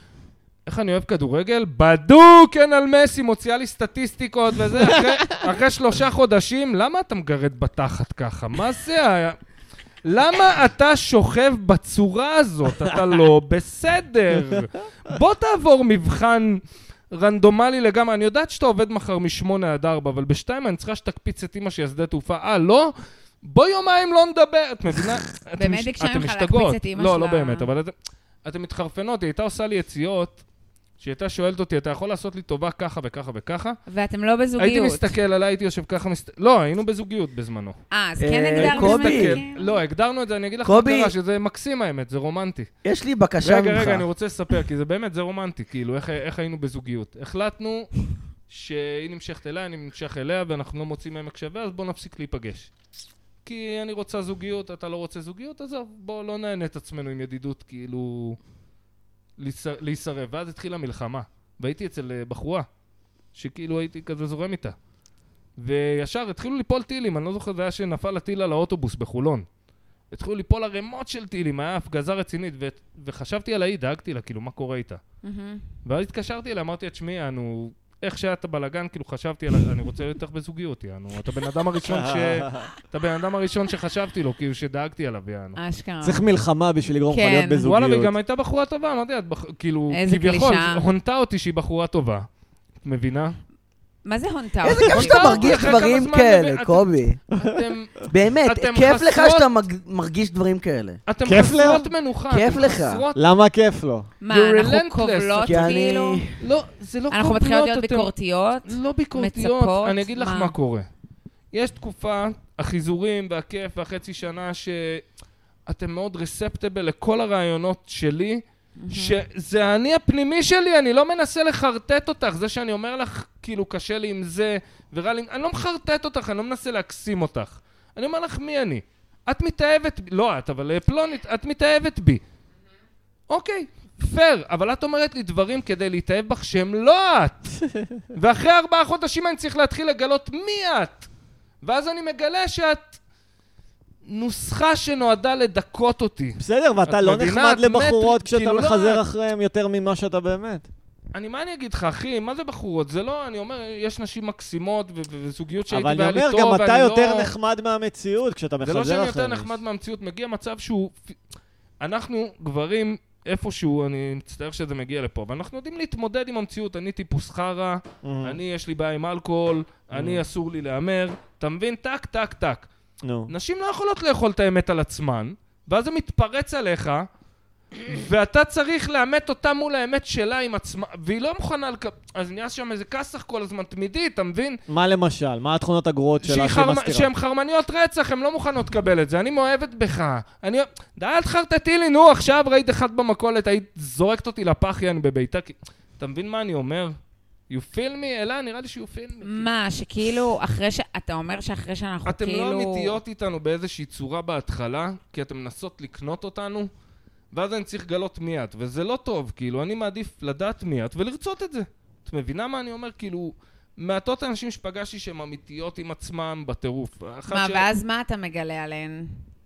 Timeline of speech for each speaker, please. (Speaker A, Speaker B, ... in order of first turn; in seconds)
Speaker A: 0.7-9.4, 10.0-16.6, 17.1-27.9, 28.4-30.4, 31.0-33.8, 34.6-37.8, 38.6-42.7, 43.4-47.9, 48.5-52.7, 53.4-58.4, 59.4-62.7, 63.3-64.8, 65.6-69.5, 70.1-75.0, 75.8-85.6, 87.6-92.2, 92.8-93.3, 94.9-99.5, 101.1-103.2, 104.3-105.7, 106.4-108.1, 108.6-110.9, 111.5-115.0, 115.7-132.2, 133.3-137.6, 138.1-141.1, 141.6-143.0, 144.1-149.0, 151.1-157.3, 158.6-161.2, 161.8-172.7, 173.3-177.1, 177.8-184.6, 186.2-196.9, 197.5-199.5, 202.1-206.7, 207.3-217.7
Speaker B: 25.6-27.7, 33.9-35.1, 37.9-39.8, 75.2-75.7, 85.5-86.2, 87.1-87.6, 89.9-90.8, 94.0-95.7, 104.2-106.2, 107.1-110.5, 118.8-119.2, 199.2-202.9, 217.3-219.1
Speaker C: 38.2-39.4, 40.6-41.1, 42.8-44.0, 94.6-97.2, 98.1-101.0, 102.3-103.0, 105.4-106.3
Speaker D: 81.8-82.7, 86.0-88.1, 101.2-101.9, 103.1-104.1, 146.4-150.7, 155.7-159.5, 168.0-168.4, 169.9-170.2, 173.0-173.3, 184.7-187.1